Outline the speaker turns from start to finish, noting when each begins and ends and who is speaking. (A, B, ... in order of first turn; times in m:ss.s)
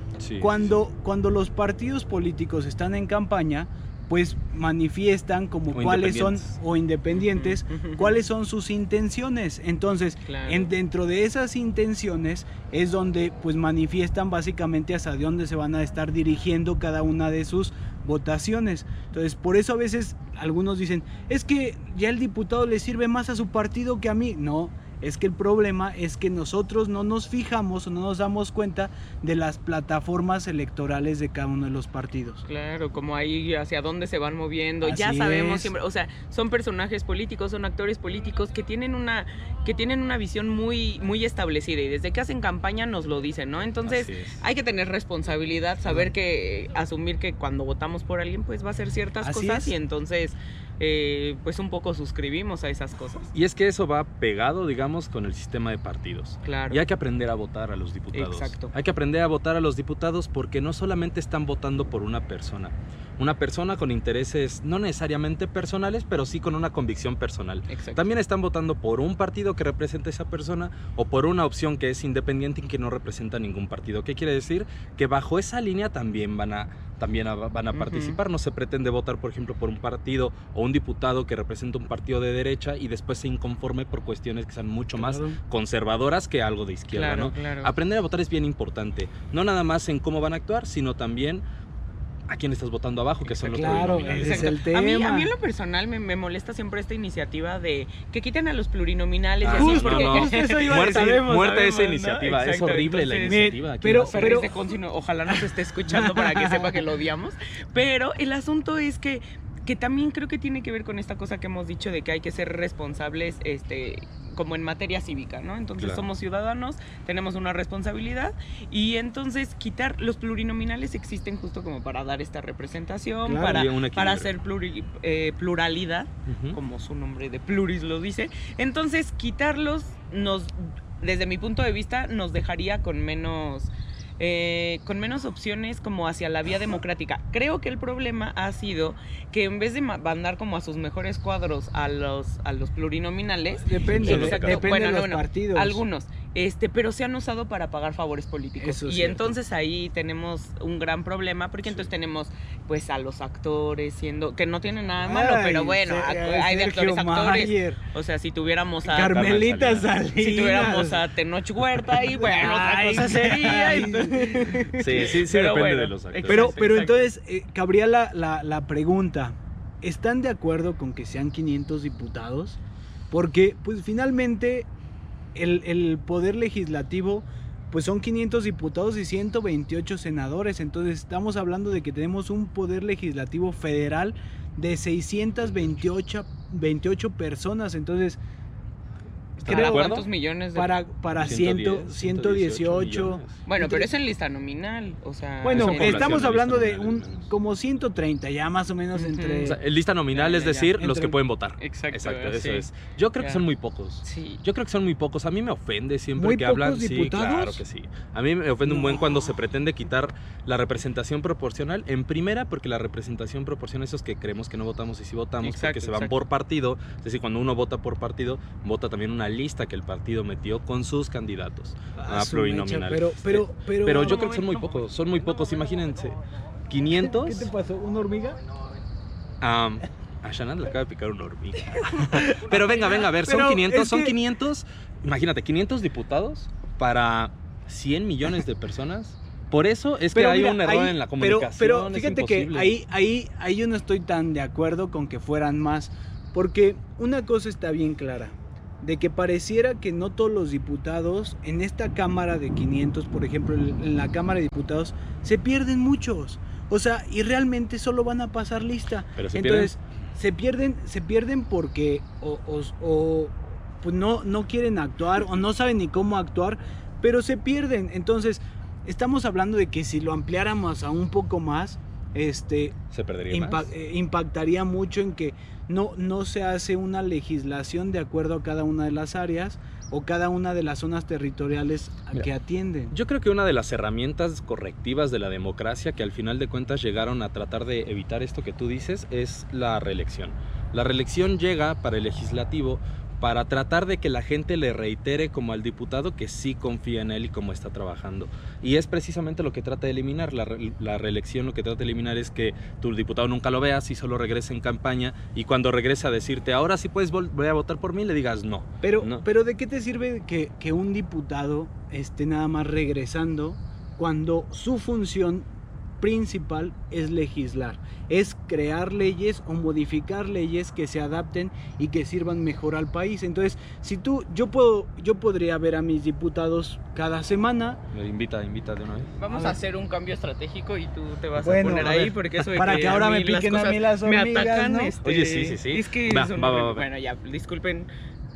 0:00.2-0:00.7 A
0:00.4-0:32.4 B
0:05.7-0:06.5 A
0:07.3-0:08.2 C
0:10.2-0:10.7 C
0:32.4-0:53.3 C
0:34.8-0:35.7 B
0:43.8-0:44.4 A
0:49.2-0:49.7 B
0:53.3-1:31.4 A
0:56.4-0:56.8 C
0:58.1-0:58.7 C
1:07.7-1:08.1 C
1:17.7-1:18.2 C
1:25.0-1:25.4 B
1:26.9-1:27.7 C
1:32.3-1:34.5 A
1:33.4-1:35.3 B
1:33.6-1:43.5 C
1:39.4-1:44.5 A
1:39.5-1:41.3 B
1:43.3-1:44.5 B
1:44.1-2:39.4 C
1:45.9-1:46.8 B
1:55.8-1:56.0 A
2:03.2-2:03.7 B
2:03.4-2:04.3 A
2:06.3-2:06.6 A
2:23.6-2:25.8 B
2:23.9-2:24.8 A
2:28.6-2:29.3 B
2:35.0-2:37.8 B
2:38.8-2:41.0 B
2:39.1-2:39.9 A
2:40.2-2:47.0 C
2:41.9-2:45.1 B
2:44.8-2:46.8 A
2:46.3-2:52.6 B
2:53.1-2:54.7 B
2:55.3-3:08.2 B
3:09.4-3:10.0 A
3:09.4-3:10.0 B
3:09.4-3:10.8 C
3:10.5-3:13.9 B
3:11.1-3:13.3 A
3:13.4-3:16.2 C
3:15.4-3:19.6 B
3:15.5-3:17.3 A
3:18.9-3:19.5 C
3:19.4-3:47.5 A
3:20.1-3:20.7 C
3:20.8-3:21.2 B
3:21.6-3:22.7 C
3:24.0-3:24.4 C
3:26.2-3:27.6 B
3:28.6-3:29.2 B
3:35.4-3:36.1 C
3:42.0-3:44.3 B
3:44.0-3:44.6 C
3:47.0-3:48.4 B
3:49.4-4:02.8 A
3:52.0-3:54.1 B
4:00.1-4:32.8 B
4:19.2-4:19.7 A
4:32.9-4:33.7 A
4:33.3-4:42.9 B
4:42.9-5:09.2 A
5:08.8-5:15.4 B
5:16.0-5:27.8 B
5:27.9-5:29.1 A
5:29.2-5:37.9 C
5:29.3-5:29.6 B
5:31.4-5:34.9 B
5:35.0-5:36.8 A